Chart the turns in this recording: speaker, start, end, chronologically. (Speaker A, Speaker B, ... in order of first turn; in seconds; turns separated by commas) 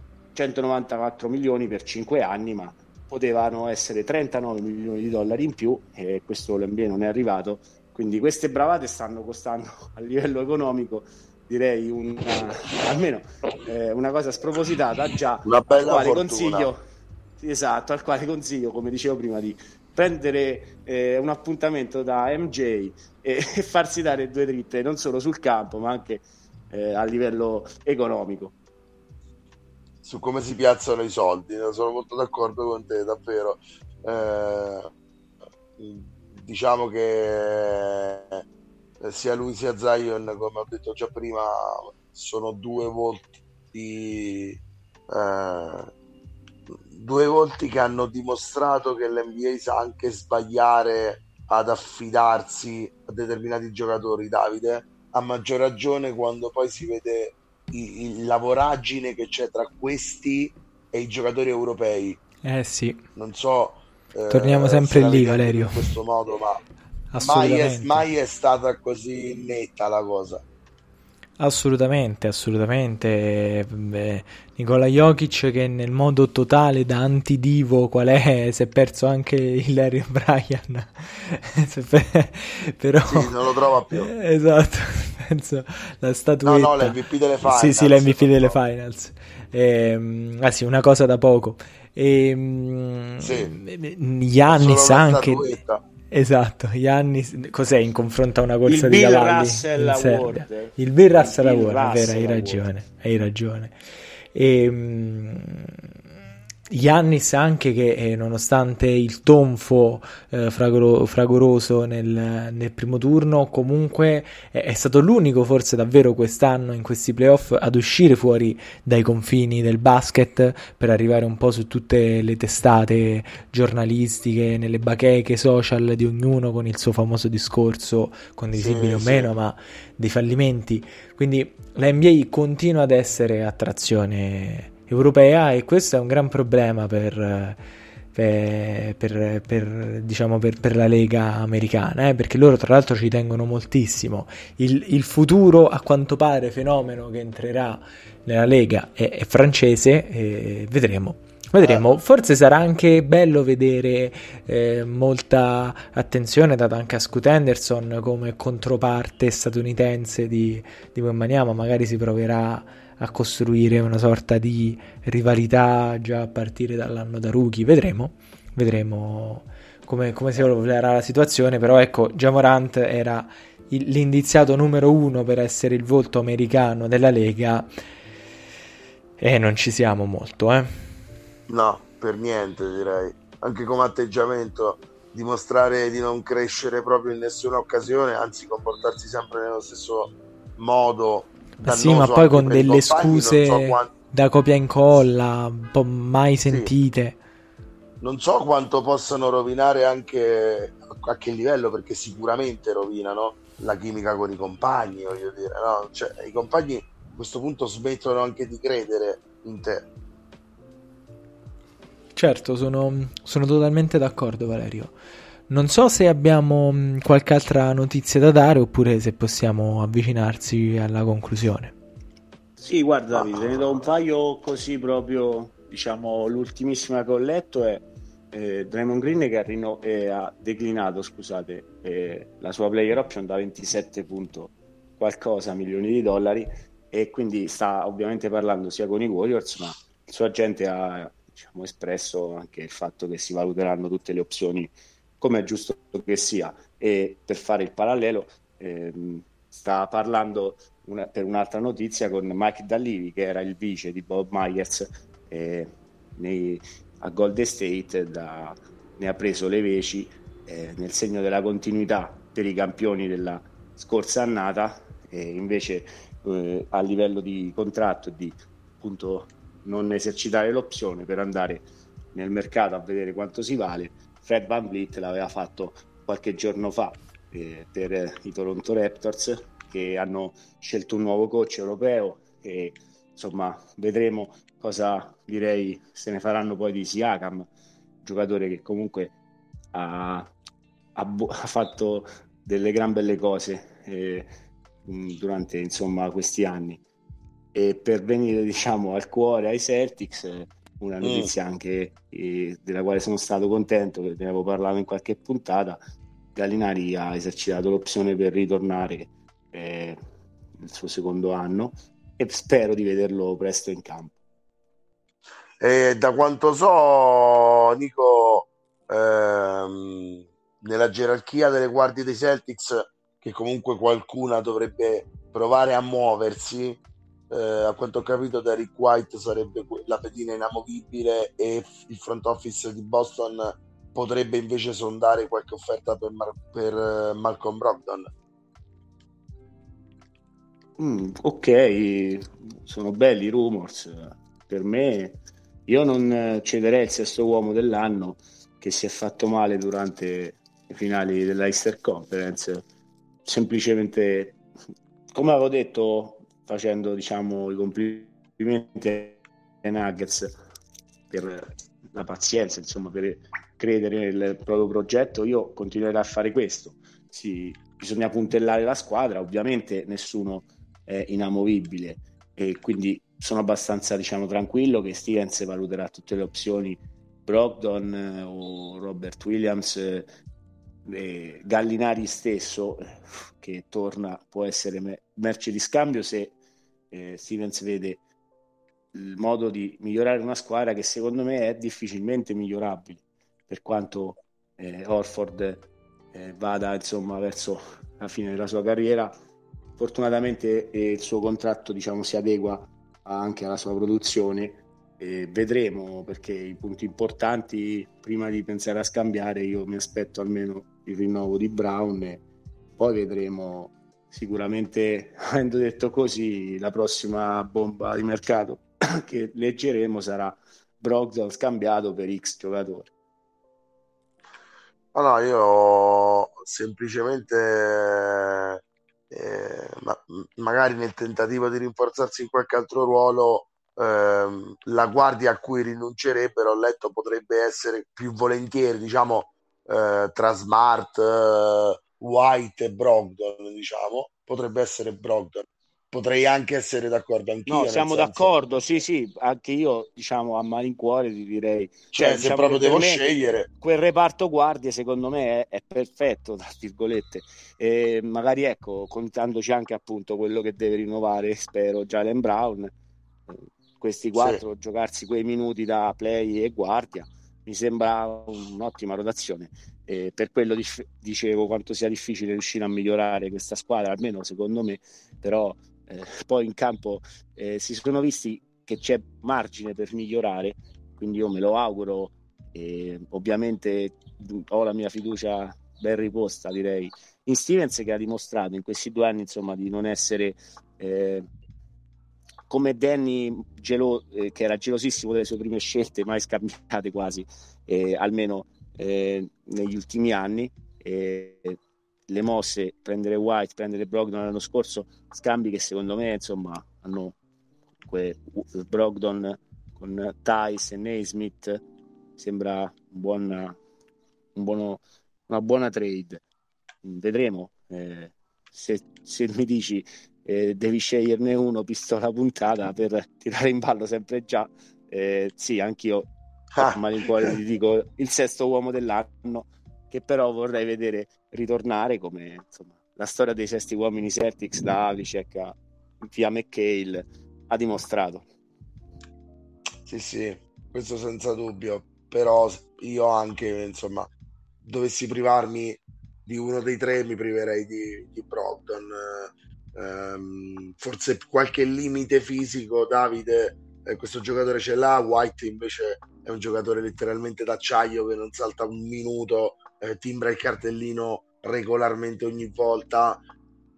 Speaker A: 0.3-16.8, Speaker B: 15.4-16.7, Speaker A: 17.4-28.6, Speaker B: 30.0-34.9, Speaker B: 35.8-38.4, Speaker B: 39.0-45.9, Speaker B: 46.7-62.2, Speaker C: 62.4-63.0, Speaker B: 63.2-66.6, Speaker C: 64.3-65.9, Speaker C: 67.1-68.0, Speaker B: 67.2-70.4, Speaker C: 71.4-83.4, Speaker B: 83.1-84.1, Speaker C: 83.9-95.5, Speaker B: 86.5-88.6, Speaker B: 93.2-93.6, Speaker B: 94.5-95.8, Speaker C: 96.1-103.8, Speaker A: 98.7-102.7, Speaker C: 104.3-105.9, Speaker C: 106.7-137.6, Speaker B: 128.6-129.3, Speaker C: 138.1-177.7, Speaker B: 151.6-151.9, Speaker C: 179.2-180.7, Speaker B: 181.5-193.9, Speaker C: 191.6-197.2, Speaker B: 198.0-209.9, Speaker C: 212.2-214.9, Speaker C: 215.5-221.8, Speaker A: 222.6-287.5, Speaker A: 288.0-289.1, Speaker A: 289.7-290.3, Speaker A: 290.9-294.3, Speaker A: 294.9-296.8, Speaker A: 297.5-305.8, Speaker B: 301.0-301.3, Speaker A: 306.4-310.0, Speaker A: 310.6-314.2, Speaker B: 315.6-338.1, Speaker A: 340.8-352.6, Speaker A: 353.2-354.4, Speaker A: 355.1-360.3, Speaker A: 361.1-380.1, Speaker A: 380.9-386.4, Speaker A: 386.9-388.0, Speaker A: 388.9-399.1, Speaker A: 399.8-412.2, Speaker A: 412.8-422.9, Speaker B: 424.9-448.3, Speaker A: 447.5-462.7, Speaker B: 451.9-453.5, Speaker A: 463.3-491.3, Speaker B: 464.1-464.4, Speaker A: 492.5-501.6, Speaker A: 502.1-507.2, Speaker A: 507.9-511.6, Speaker A: 512.2-513.6, Speaker A: 514.4-516.2, Speaker A: 516.8-538.3, Speaker B: 526.5-527.4, Speaker B: 539.9-544.1, Speaker B: 544.6-563.2